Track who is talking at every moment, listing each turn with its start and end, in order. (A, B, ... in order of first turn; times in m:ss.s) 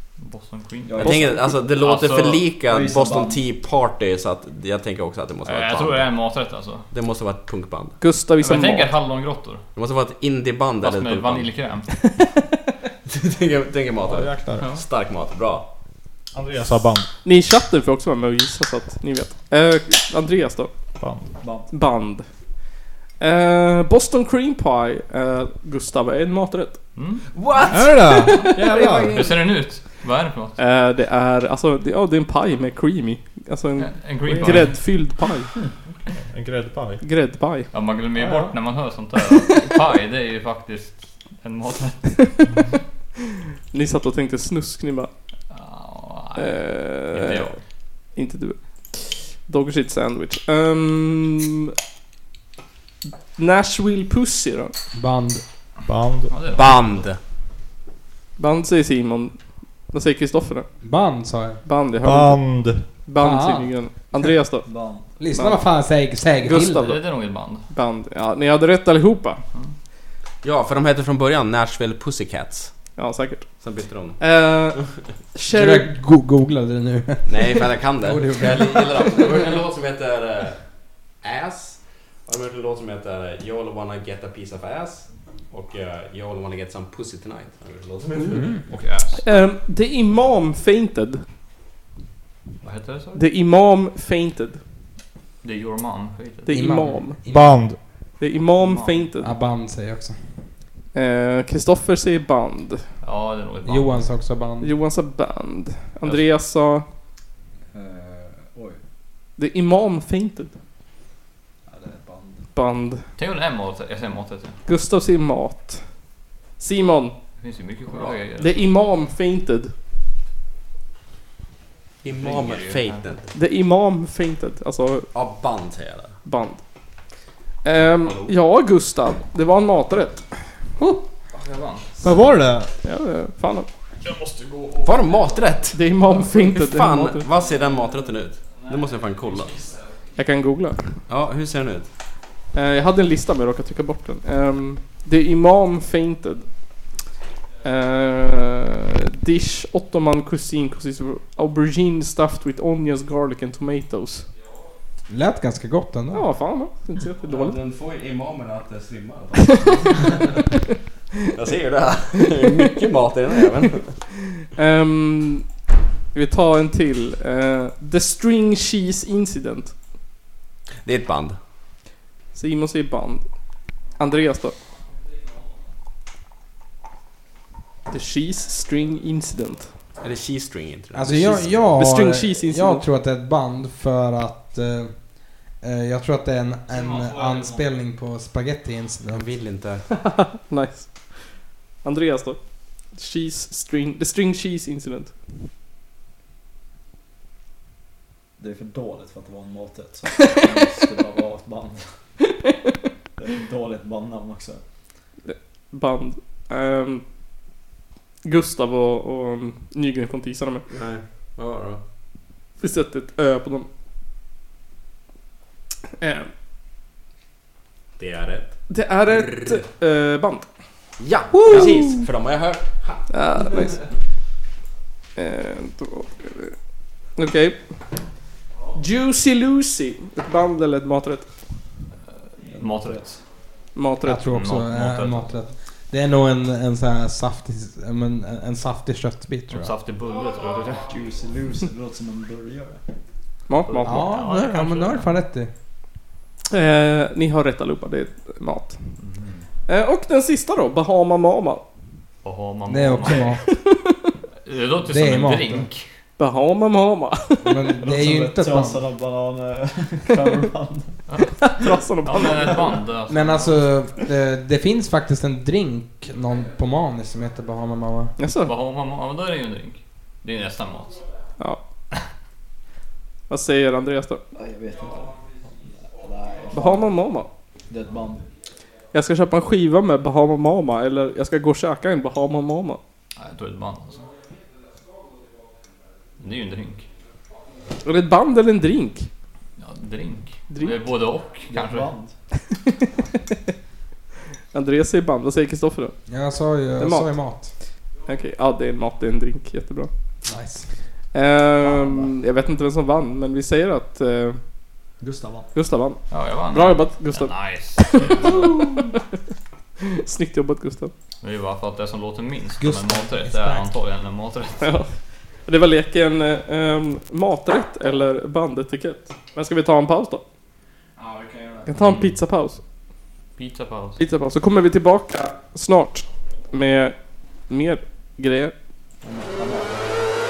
0:00.2-0:02.6 A
0:00.9-0:01.7 B
0:01.0-0:06.1 C
0:02.6-0:03.4 B
0:05.4-0:06.9 A
0:06.9-0:08.0 C
0:08.0-0:08.9 D
0:08.4-0:09.6 A
0:09.7-0:11.5 C
0:10.8-0:12.1 A
0:13.1-0:15.7 C
0:14.0-0:14.7 E
0:16.3-0:17.1 E
0:17.2-0:20.7 D
0:21.0-0:21.3 E
0:21.4-0:21.7 B
0:21.7-0:22.6 D
0:23.2-0:26.8 D
0:27.0-0:27.6 A
0:27.4-0:28.4 B
0:27.7-0:29.3 E
0:28.3-0:30.6 A
0:30.6-0:35.5 D
0:33.8-0:35.0 A
0:34.2-0:34.6 B
0:36.1-0:37.0 E
0:37.0-0:37.7 D
0:37.7-0:42.3 A
0:38.2-0:38.6 E
0:43.7-0:45.1 D
0:45.5-0:47.6 A
0:46.4-0:51.7 D
0:53.4-0:54.7 D
0:54.9-0:55.4 F
0:55.9-0:56.3 E
0:56.3-0:57.1 A
0:56.5-0:57.2 C
0:58.4-1:00.7 D
1:00.8-1:01.6 F
1:01.6-1:05.6 D
1:02.0-1:02.9 E
1:03.2-1:03.8 F
1:04.6-1:05.1 B
1:05.2-1:07.0 F
1:06.4-1:09.4 D
1:06.5-1:07.7 A
1:10.4-1:12.9 C
1:13.0-1:15.9 D
1:13.6-1:14.4 C
1:15.5-1:19.2 F
1:17.3-1:20.7 C
1:21.2-1:28.6 C
1:28.3-1:28.6 F
1:28.7-1:29.3 A
1:29.1-1:31.2 D
1:32.6-1:33.3 A
1:33.1-1:34.6 D
1:35.4-1:36.6 A
1:36.4-1:39.3 D
1:36.5-1:37.7 F
1:37.3-1:37.8 E
1:38.6-1:39.1 A
1:39.2-1:40.5 F
1:40.9-1:42.9 D
1:43.0-1:44.2 A
1:43.6-1:44.8 F
1:44.6-1:46.8 D
1:47.7-1:48.8 B
1:49.4-1:50.5 D
1:51.6-1:52.5 B
1:52.5-1:53.0 D
1:53.2-1:54.6 A
1:54.6-1:55.9 D
1:56.6-1:57.1 D
1:57.4-1:58.7 A
1:58.4-1:59.7 D
2:02.0-2:03.3 C
2:02.1-2:03.3 A
2:03.3-2:05.1 D
2:05.1-2:06.2 C
2:06.2-2:06.6 D
2:07.6-2:10.5 D
2:08.0-2:08.3 C
2:11.3-2:12.1 A
2:12.0-2:12.7 E
2:12.8-2:13.7 D
2:14.0-2:15.1 E
2:14.8-2:15.8 C
2:15.7-2:17.3 D
2:16.0-2:16.4 A
2:16.4-2:19.5 C
2:18.5-2:20.0 A
2:20.2-2:20.9 D
2:21.1-2:21.9 C
2:22.5-2:26.5 D
2:27.6-2:34.3 D
2:35.1-2:36.3 F
2:36.1-2:37.6 D
2:37.3-2:40.6 C
2:41.3-2:44.0 C
2:44.5-2:45.6 D
2:46.1-2:49.8 D
2:50.8-2:51.4 C
2:52.3-2:53.3 D
2:54.0-2:54.6 D
2:57.9-2:59.7 D
3:00.0-3:01.7 C
3:00.9-3:09.3 F
3:01.8-3:02.8 D
3:06.8-3:07.6 A
3:09.1-3:09.9 C
3:10.0-3:15.1 D
3:18.4-3:22.0 B
3:23.2-3:24.7 B
3:25.3-3:27.0 D
3:28.2-3:30.6 D
3:30.7-3:31.8 C
3:32.6-3:33.7 D
3:36.0-3:36.3 D
3:38.0-3:38.7 C
3:38.7-3:40.4 D
3:41.0-3:43.1 C
3:41.4-3:41.9 D
3:43.1-3:43.8 D
3:45.2-3:46.6 D
3:47.1-3:47.8 D
3:48.7-3:51.3 D
3:52.2-3:53.2 A
3:52.4-3:53.2 B
3:53.7-3:54.3 D
3:54.0-3:59.7 F
3:54.2-3:55.3 A
3:59.5-4:01.0 A
4:00.8-4:02.8 B
4:03.5-4:04.1 D
4:03.7-4:05.2 A
4:03.8-4:05.5 F
4:06.5-4:08.8 D
4:09.0-4:09.5 A
4:09.7-4:11.6 D
4:12.2-4:13.4 A
4:12.7-4:13.4 F
4:13.4-4:14.1 D
4:14.4-4:15.9 A
4:14.8-4:15.7 F
4:16.2-4:17.7 D
4:17.4-4:18.8 F
4:17.8-4:22.7 B
4:21.1-4:23.8 A
4:21.4-4:22.7 D
4:23.1-4:28.1 F
4:28.2-4:28.5 D
4:28.4-4:31.0 A
4:33.3-4:34.2 D
4:34.3-4:37.0 B
4:36.5-4:37.3 D
4:37.7-4:38.3 B
4:38.9-4:42.8 D
4:43.2-4:44.1 A
4:46.2-4:46.9 A
4:47.8-4:49.1 D
4:49.6-4:52.0 A
4:50.5-4:50.8 D
4:51.5-4:52.2 B
4:52.5-4:53.0 D
4:54.5-4:56.0 D
4:56.1-4:57.5 F
4:56.8-4:57.2 D
4:58.0-4:59.9 D
5:00.2-5:00.7 F
5:01.1-5:04.4 D
5:01.6-5:02.1 B
5:05.0-5:05.5 B
5:05.6-5:09.0 D
5:06.1-5:08.9 A
5:09.8-5:10.9 D
5:11.2-5:14.8 A
5:12.6-5:13.7 F
5:14.6-5:14.9 D
5:15.4-5:20.2 D
5:21.0-5:21.7 B
5:21.6-5:22.6 D
5:21.8-5:22.2 A
5:23.4-5:24.0 A
5:24.0-5:27.0 D
5:27.5-5:28.5 D
5:29.0-5:29.9 B